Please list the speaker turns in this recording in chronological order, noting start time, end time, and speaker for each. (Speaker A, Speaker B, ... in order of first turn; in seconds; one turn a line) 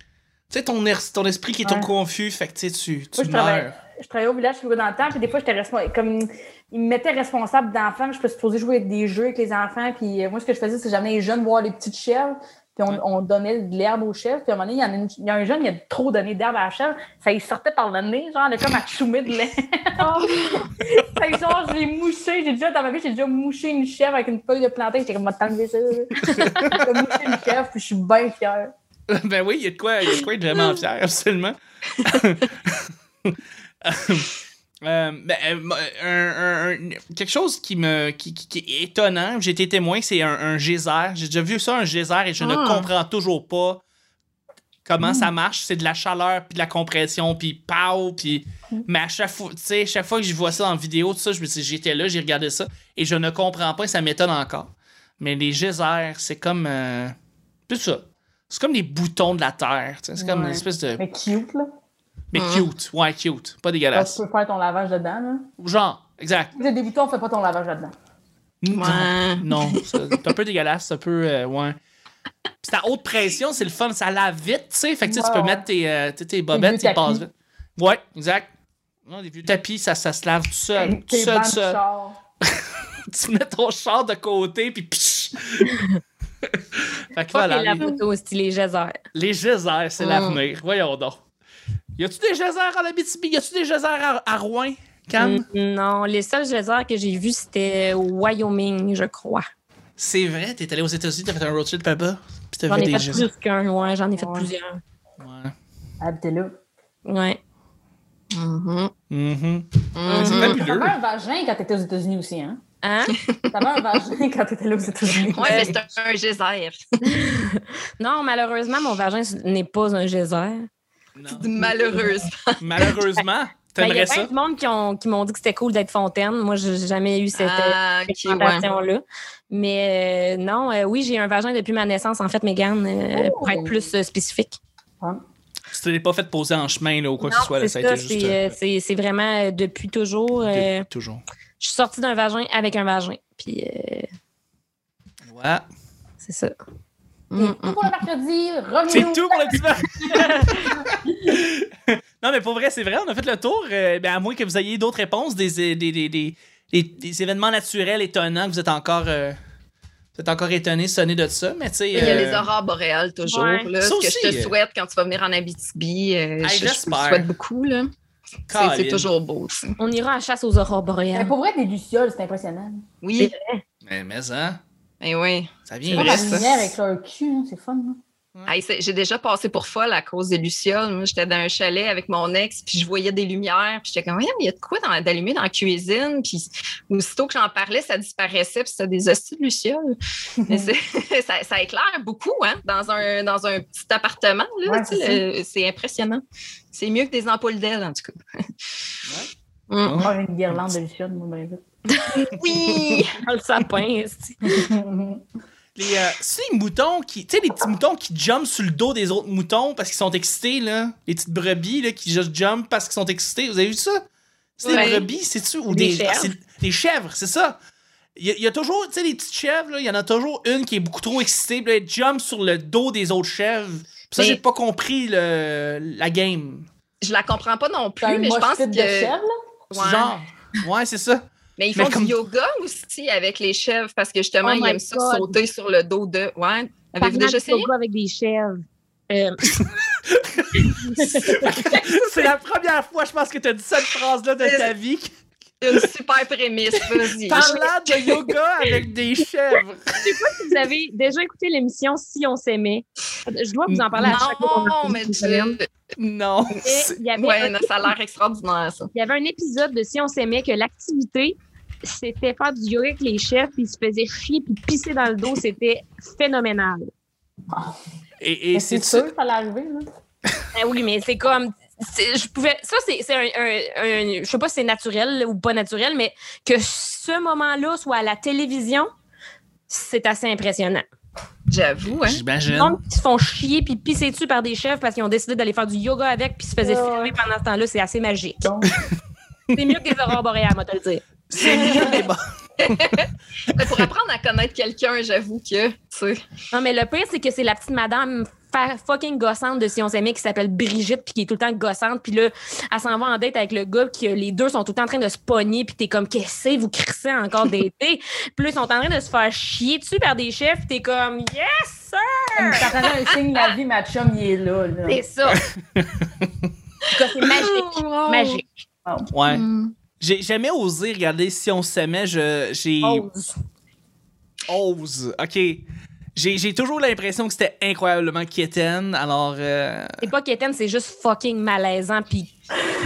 Speaker A: 0.5-3.7
Speaker B: 3.2-20.1
Speaker C: 20.0-20.7
Speaker B: 20.8-28.7
Speaker A: 26.1-26.9
Speaker A: 29.1-34.3
Speaker A: 34.8-43.8
Speaker D: 42.4-42.9
Speaker A: 44.9-57.1
Speaker B: 45.0-45.3
Speaker A: 57.7-61.0
Speaker B: 60.2-61.7
Speaker A: 62.3-64.2
Speaker D: 62.4-62.7
Speaker B: 63.9-65.5
Speaker A: 65.6-66.5
Speaker B: 66.6-67.9
Speaker A: 68.6-71.8
Speaker D: 68.7-69.8
Speaker A: 72.6-78.5
Speaker B: 75.0-75.7
Speaker B: 76.5-77.3
Speaker A: 79.1-81.8
Speaker B: 80.8-82.2
Speaker A: 82.5-85.7
Speaker A: 86.4-87.9
Speaker C: 87.3-89.0
Speaker A: 89.1-91.2
Speaker D: 90.0-90.4
Speaker A: 92.0-95.5
Speaker C: 95.2-99.5
Speaker A: 100.0-103.3
Speaker C: 102.7-104.8
Speaker B: 104.2-104.5
Speaker A: 105.2-105.5
Speaker B: 106.0-106.5
Speaker C: 107.1-107.4
Speaker D: 108.3-108.9
Speaker A: 109.1-111.0
Speaker D: 110.0-110.6
Speaker C: 110.1-110.5
Speaker B: 110.2-112.6
Speaker C: 112.8-113.2
Speaker B: 113.5-115.8
Speaker D: 115.3-116.8
Speaker C: 115.4-115.7
Speaker C: 117.1-120.7
Speaker A: 121.2-121.5
Speaker D: 121.3-122.9
Speaker A: 122.6-124.3
Speaker C: 123.8-134.6
Speaker D: 127.4-128.6
Speaker B: 133.1-133.9
Speaker A: 135.7-138.5
Speaker C: 137.2-140.9
Speaker A: 140.5-141.2
Speaker C: 141.6-144.1
Speaker A: 145.2-145.6
Speaker C: 146.2-146.5
Speaker D: 147.3-147.8
Speaker B: 147.4-149.4
Speaker A: 148.9-159.4
Speaker A: 160.2-162.5
Speaker D: 161.9-167.9
Speaker C: 163.2-163.7
Speaker A: 163.8-164.6
Speaker A: 166.4-167.3
Speaker A: 168.5-169.1
Speaker D: 168.5-169.8
Speaker C: 169.8-171.3
Speaker B: 171.1-172.8
Speaker D: 173.0-173.3
Speaker C: 173.2-173.6
Speaker A: 173.8-174.6
Speaker D: 175.0-176.7
Speaker A: 175.7-176.5
Speaker B: 175.9-178.0
Speaker D: 178.5-189.9
Speaker B: 190.4-190.7
Speaker D: 190.5-196.2
Speaker B: 194.7-195.2
Speaker D: 196.7-198.8
Speaker D: 199.7-200.0
Speaker A: 199.8-200.7
Speaker B: 200.0-201.6
Speaker D: 202.1-203.2
Speaker C: 203.2-204.7
Speaker B: 204.5-205.2
Speaker A: 205.8-214.0
Speaker A: 214.6-217.6
Speaker C: 214.6-215.0
Speaker D: 214.7-215.0
Speaker C: 215.7-216.3
Speaker A: 218.2-226.7
Speaker D: 227.0-229.2
Speaker B: 228.0-229.3
Speaker D: 229.7-230.1
Speaker A: 229.7-232.2
Speaker D: 231.6-237.7
Speaker C: 234.4-235.3
Speaker C: 237.0-239.6
Speaker A: 239.6-245.1
Speaker C: 240.6-241.7
Speaker D: 244.4-244.7
Speaker D: 245.6-247.7
Speaker A: 247.3-250.0
Speaker C: 247.3-247.7
Speaker C: 250.0-255.6
Speaker A: 253.7-254.2
Speaker D: 254.0-255.7
Speaker A: 256.0-257.0
Speaker C: 256.6-257.9
Speaker D: 257.1-258.9
Speaker C: 258.9-266.9
Speaker A: 268.2-269.1
Speaker B: 268.5-269.8
Speaker C: 270.5-278.9
Speaker C: 279.7-280.9
Speaker D: 281.5-282.2
Speaker A: 282.0-282.8
Speaker C: 282.5-288.4
Speaker B: 286.6-287.1
Speaker B: 288.4-288.7
Speaker C: 289.5-291.1
Speaker A: 291.3-292.8
Speaker B: 291.4-292.0
Speaker D: 292.7-296.2
Speaker C: 296.5-312.9
Speaker B: 312.5-315.0
Speaker C: 314.9-315.4
Speaker A: 315.3-316.5
Speaker C: 316.9-318.6
Speaker D: 317.2-318.4
Speaker A: 319.1-319.4
Speaker D: 319.3-319.8
Speaker A: 320.0-323.1
Speaker C: 322.8-323.3
Speaker A: 324.5-330.0
Speaker C: 330.0-332.3